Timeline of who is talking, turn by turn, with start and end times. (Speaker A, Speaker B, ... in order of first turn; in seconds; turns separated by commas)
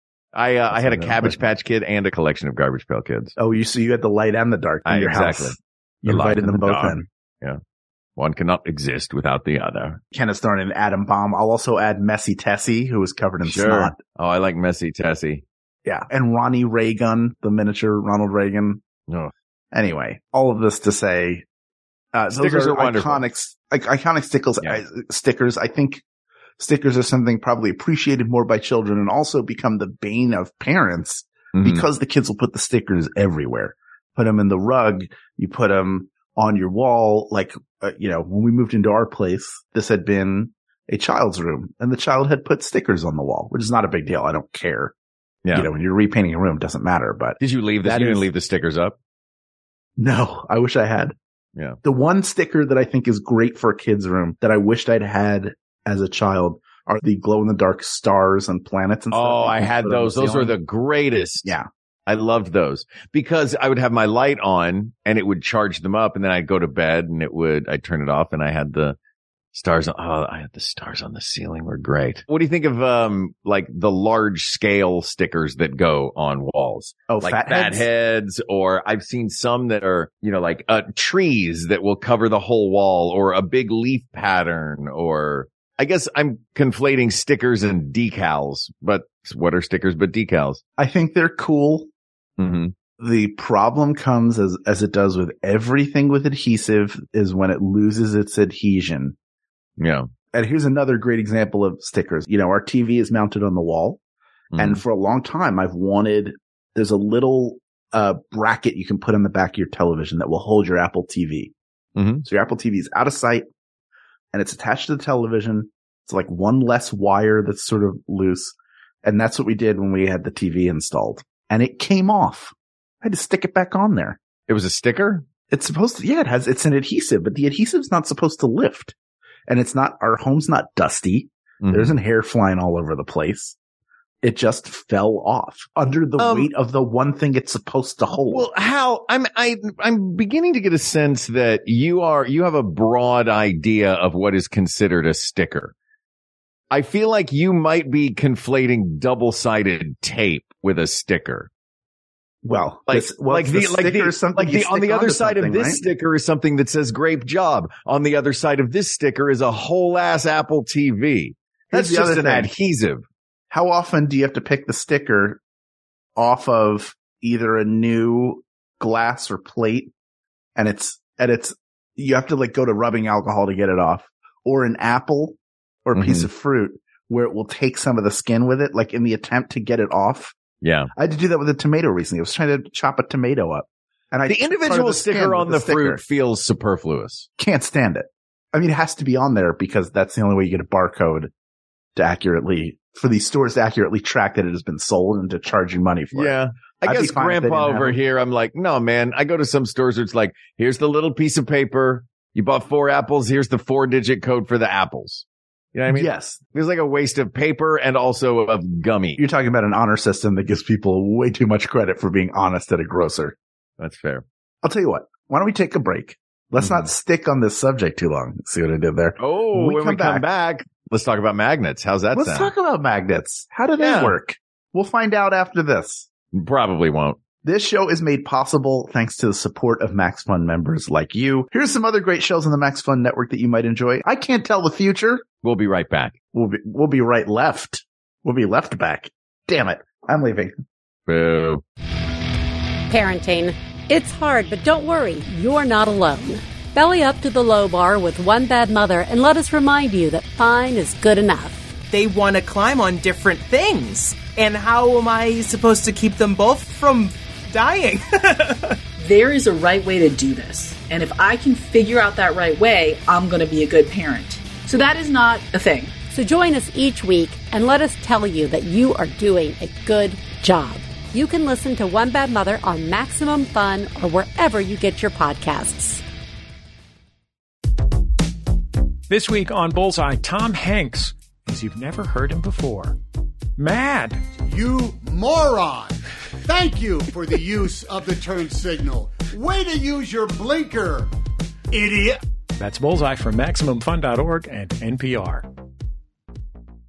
Speaker A: 0.3-3.4, Speaker B: 0.7-1.4, Speaker B: 3.4-7.1, Speaker A: 4.9-7.6, Speaker A: 8.2-10.0, Speaker B: 10.1-14.0, Speaker A: 13.4-15.4, Speaker B: 15.8-18.8, Speaker B: 19.7-21.4, Speaker B: 22.1-26.0, Speaker A: 22.3-23.2, Speaker B: 26.6-44.9, Speaker A: 31.5-31.8, Speaker B: 45.5-48.3, Speaker A: 47.4-49.0, Speaker B: 50.0-51.1, Speaker B: 51.8-60.6, Speaker A: 59.1-61.5, Speaker A: 62.1-69.0, Speaker A: 69.5-90.6, Speaker B: 77.1-77.9, Speaker B: 90.8-91.9, Speaker A: 92.4-92.7, Speaker B: 93.0-99.2, Speaker A: 99.8-100.1, Speaker B: 100.3-104.0, Speaker A: 104.5-104.8, Speaker B: 104.6-111.5, Speaker A: 112.0-112.2, Speaker B: 112.2-113.5, Speaker B: 114.3-124.2, Speaker A: 124.5-125.2, Speaker B: 125.5-128.9, Speaker B: 129.5-133.6, Speaker A: 131.6-131.9, Speaker B: 134.2-138.5, Speaker A: 136.2-136.5, Speaker A: 138.3-145.7, Speaker A: 146.7-151.5, Speaker B: 152.4-155.9, Speaker A: 152.9-163.0, Speaker B: 161.7-162.5, Speaker B: 163.5-165.4, Speaker B: 166.2-169.9, Speaker B: 170.6-180.4, Speaker A: 175.9-176.3, Speaker A: 180.6-180.9, Speaker B: 180.9-186.0, Speaker A: 184.3-187.3, Speaker B: 187.4-191.3, Speaker B: 192.0-198.0, Speaker A: 196.1-209.2, Speaker B: 205.9-206.4, Speaker B: 209.2-213.4, Speaker A: 213.8-214.2, Speaker B: 214.6-220.2, Speaker A: 216.6-216.9, Speaker A: 219.2-222.5, Speaker B: 222.1-226.1, Speaker A: 223.8-224.2, Speaker A: 226.3-227.2, Speaker B: 227.4-235.2, Speaker A: 235.4-236.2, Speaker B: 236.3-240.5, Speaker A: 241.1-241.6, Speaker C: 242.9-251.6, Speaker D: 251.9-258.8, Speaker E: 259.0-266.0, Speaker C: 266.1-276.0, Speaker F: 279.1-283.0, Speaker F: 283.6-284.2, Speaker G: 284.4-291.1, Speaker G: 291.7-292.2, Speaker F: 292.6-295.5